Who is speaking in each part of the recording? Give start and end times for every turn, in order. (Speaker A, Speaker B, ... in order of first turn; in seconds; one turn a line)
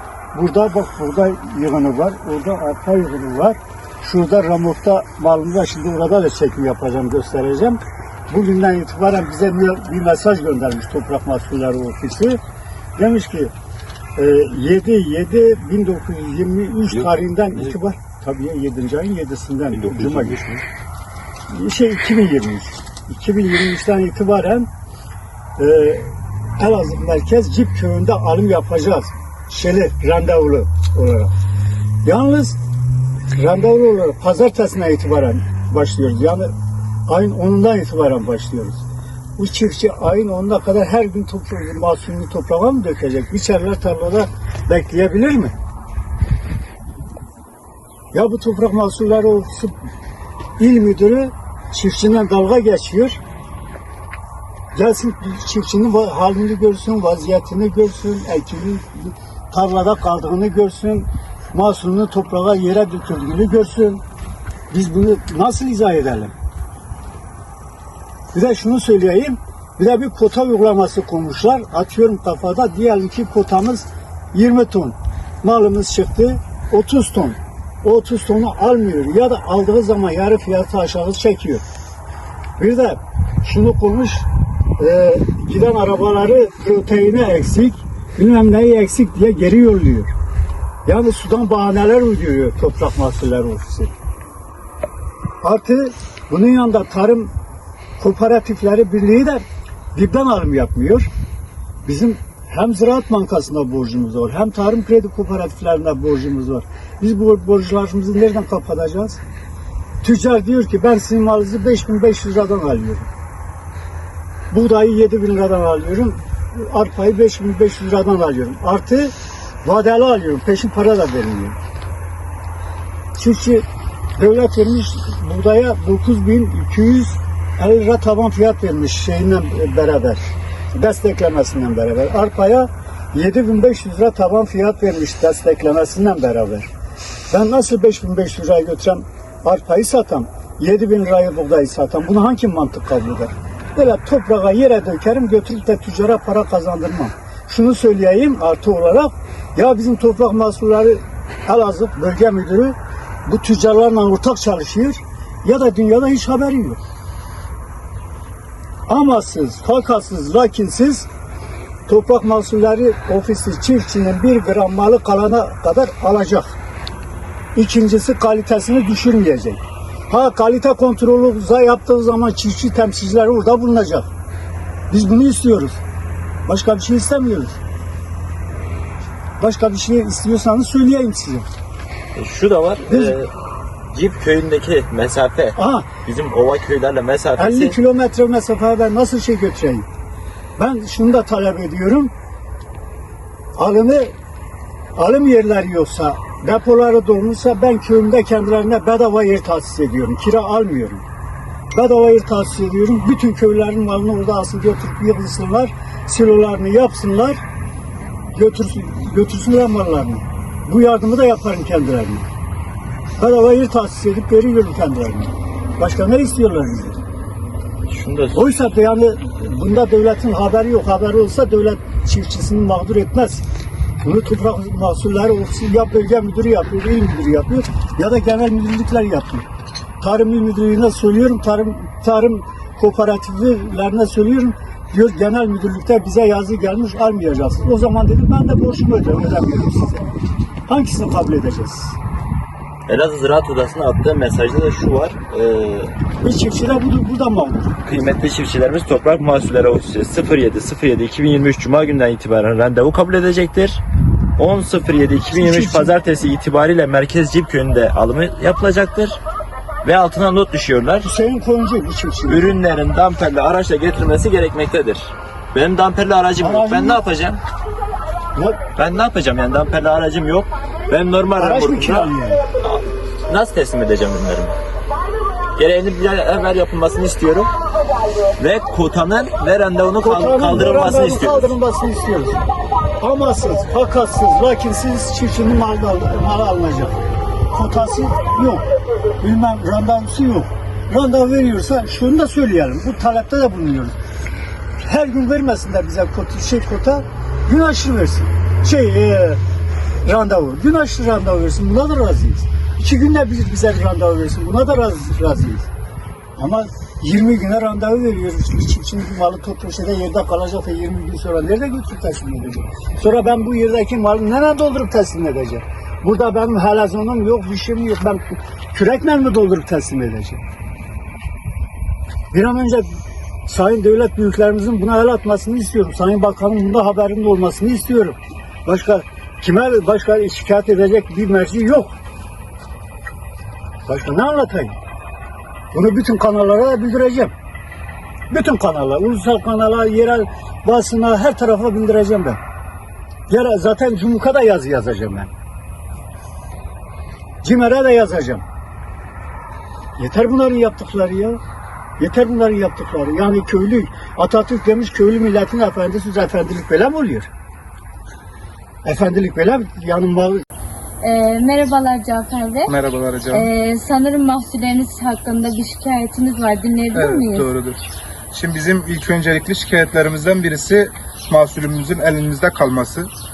Speaker A: 0.3-12.4
Speaker A: 13.0-13.5
Speaker A: 14.2-20.4
Speaker B: 16.9-17.7
Speaker B: 19.7-20.6
Speaker A: 21.5-24.7
Speaker A: 25.6-31.3
Speaker A: 32.0-32.6
Speaker A: 33.3-36.5
Speaker A: 37.1-38.8
Speaker A: 39.4-45.5
Speaker A: 48.1-49.7
Speaker A: 50.6-53.2
Speaker A: 54.7-64.0
Speaker A: 64.7-66.3
Speaker A: 68.3-81.6
Speaker A: 82.6-90.1
Speaker A: 90.8-93.9
Speaker A: 95.4-97.3
Speaker A: 98.0-99.4
Speaker A: 99.9-101.1
Speaker A: 101.8-109.2
Speaker A: 110.0-113.1
Speaker A: 114.5-119.1
Speaker A: 119.6-121.6
Speaker A: 123.2-123.6
Speaker A: 124.2-130.2
Speaker A: 130.7-136.7
Speaker A: 137.3-156.8
Speaker A: 158.9-161.1
Speaker A: 161.9-166.6
Speaker A: 167.5-174.1
Speaker A: 174.9-175.8
Speaker A: 176.5-177.6
Speaker A: 179.4-181.5
Speaker B: 182.1-183.3
Speaker A: 182.9-183.1
Speaker B: 183.9-187.8
Speaker A: 185.6-185.9
Speaker A: 187.4-189.8
Speaker A: 190.6-192.1
Speaker A: 193.6-194.1
Speaker A: 194.9-201.0
Speaker A: 201.7-207.4
Speaker A: 208.3-212.3
Speaker A: 213.2-217.0
Speaker B: 217.9-218.4
Speaker A: 218.3-223.4
Speaker A: 224.0-229.5
Speaker A: 230.0-240.1
Speaker A: 240.7-242.0
Speaker B: 242.9-245.9
Speaker A: 246.2-247.8
Speaker B: 247.8-253.8
Speaker B: 254.4-259.2
Speaker A: 255.3-255.9
Speaker B: 259.8-261.1
Speaker A: 261.0-262.6
Speaker B: 262.3-267.4
Speaker A: 266.4-267.0
Speaker A: 268.3-268.6
Speaker B: 268.8-274.6
Speaker A: 271.4-272.4
Speaker B: 275.6-277.5
Speaker B: 278.4-281.5
Speaker A: 280.0-282.4
Speaker A: 283.0-287.0
Speaker A: 287.5-288.6
Speaker A: 289.2-293.9
Speaker A: 294.8-299.4
Speaker A: 300.0-305.7
Speaker A: 306.4-320.4
Speaker A: 322.3-331.9
Speaker A: 333.9-334.8
Speaker A: 335.7-337.3
Speaker A: 338.3-342.4
Speaker A: 343.3-345.3
Speaker A: 347.4-348.4
Speaker A: 350.0-351.4
Speaker A: 352.0-357.3
Speaker A: 358.8-360.4
Speaker C: 361.0-362.7
Speaker D: 362.7-363.5
Speaker C: 363.3-367.5
Speaker D: 366.9-367.8
Speaker D: 368.3-373.1